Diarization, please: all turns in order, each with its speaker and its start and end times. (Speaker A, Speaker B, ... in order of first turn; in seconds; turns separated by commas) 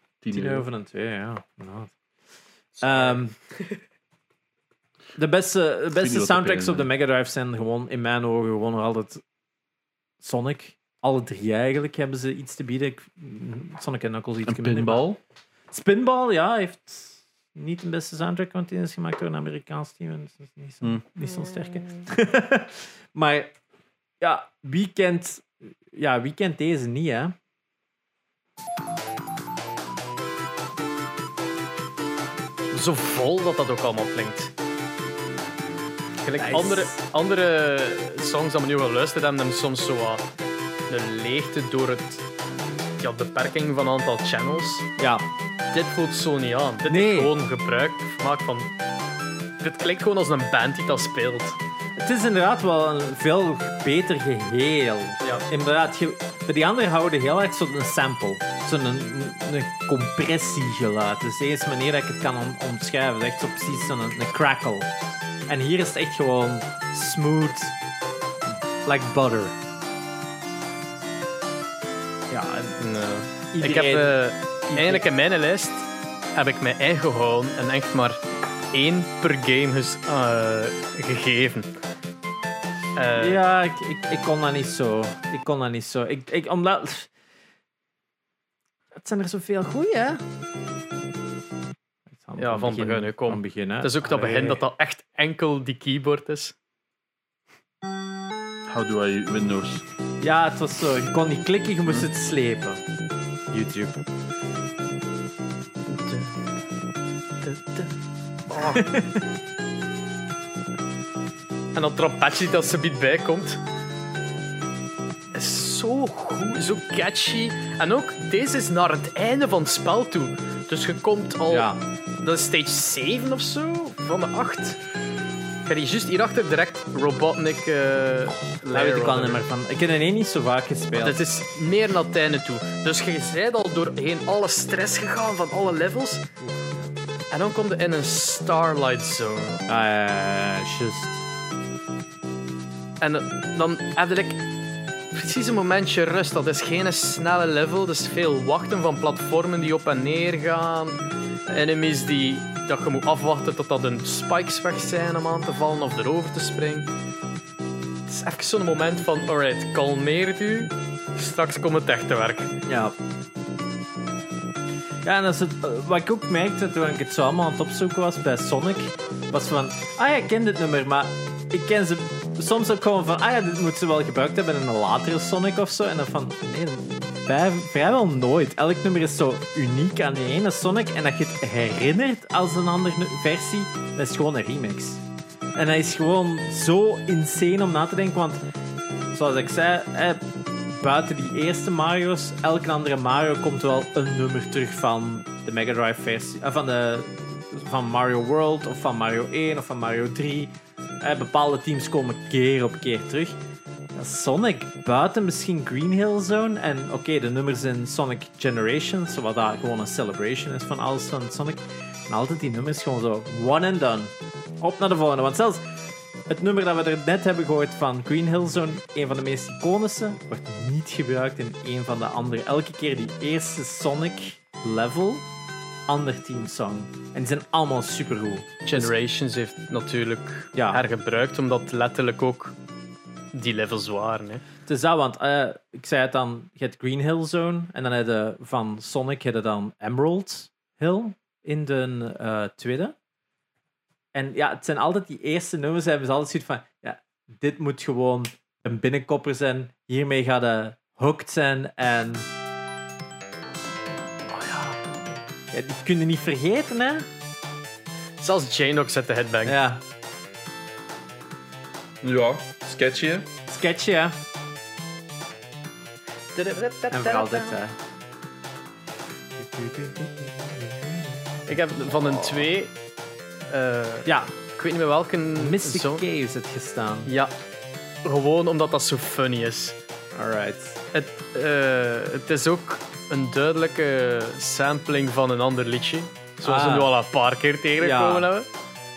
Speaker A: 0.2-0.6, Speaker B: 0.3-1.9, Speaker C: 2.8-3.8, Speaker B: 2.8-3.3, Speaker B: 5.2-9.2, Speaker A: 6.0-6.9, Speaker B: 10.2-15.0, Speaker A: 14.4-15.2, Speaker B: 15.7-23.5, Speaker B: 24.2-27.3, Speaker C: 32.7-34.5, Speaker C: 36.2-40.2, Speaker B: 36.4-37.0, Speaker C: 40.9-42.2, Speaker C: 43.0-44.9, Speaker B: 45.0-45.2, Speaker C: 45.7-48.7, Speaker B: 46.9-47.3, Speaker C: 49.6-51.6, Speaker B: 52.0-64.9, Speaker B: 65.5-67.8, Speaker B: 68.8-69.5, Speaker B: 72.3-72.8, Speaker C: 72.8-78.2, Speaker B: 73.5-74.2, Speaker B: 74.7-75.0, Speaker C: 78.7-81.7, Speaker C: 83.0-83.4, Speaker B: 83.2-87.1, Speaker B: 89.0-90.2, Speaker B: 92.1-94.6, Speaker C: 92.4-96.5, Speaker A: 98.7-99.8, Speaker B: 100.2-102.8, Speaker B: 103.5-104.0, Speaker C: 105.9-106.3, Speaker C: 107.4-107.9, Speaker C: 108.5-109.0, Speaker B: 108.7-109.1, Speaker C: 111.7-113.6, Speaker C: 115.3-124.8, Speaker B: 121.5-121.8, Speaker C: 125.6-129.4, Speaker B: 128.7-131.2, Speaker C: 131.0-136.2, Speaker C: 137.3-139.6, Speaker B: 139.7-141.2, Speaker C: 143.0-144.4, Speaker C: 145.1-156.9, Speaker C: 158.1-162.6, Speaker B: 162.7-162.9, Speaker B: 165.0-185.0, Speaker B: 185.6-188.4, Speaker B: 189.1-203.4, Speaker B: 203.9-215.6, Speaker B: 216.3-225.2, Speaker B: 225.9-228.9, Speaker C: 228.7-232.5, Speaker B: 230.5-230.8, Speaker C: 233.3-234.4, Speaker B: 234.7-242.9, Speaker B: 244.1-252.3, Speaker C: 254.3-254.8, Speaker B: 255.5-257.1, Speaker C: 258.2-259.6, Speaker B: 259.4-259.8, Speaker A: 262.0-263.2, Speaker B: 263.5-264.1, Speaker C: 266.3-267.6, Speaker B: 266.9-267.8, Speaker B: 269.4-271.5, Speaker C: 271.5-272.7, Speaker C: 273.5-276.0, Speaker B: 274.1-274.3, Speaker B: 275.4-277.1, Speaker C: 277.1-277.3, Speaker C: 278.0-279.8, Speaker B: 280.1-280.8, Speaker C: 280.9-288.5, Speaker B: 286.4-286.9, Speaker B: 287.8-288.3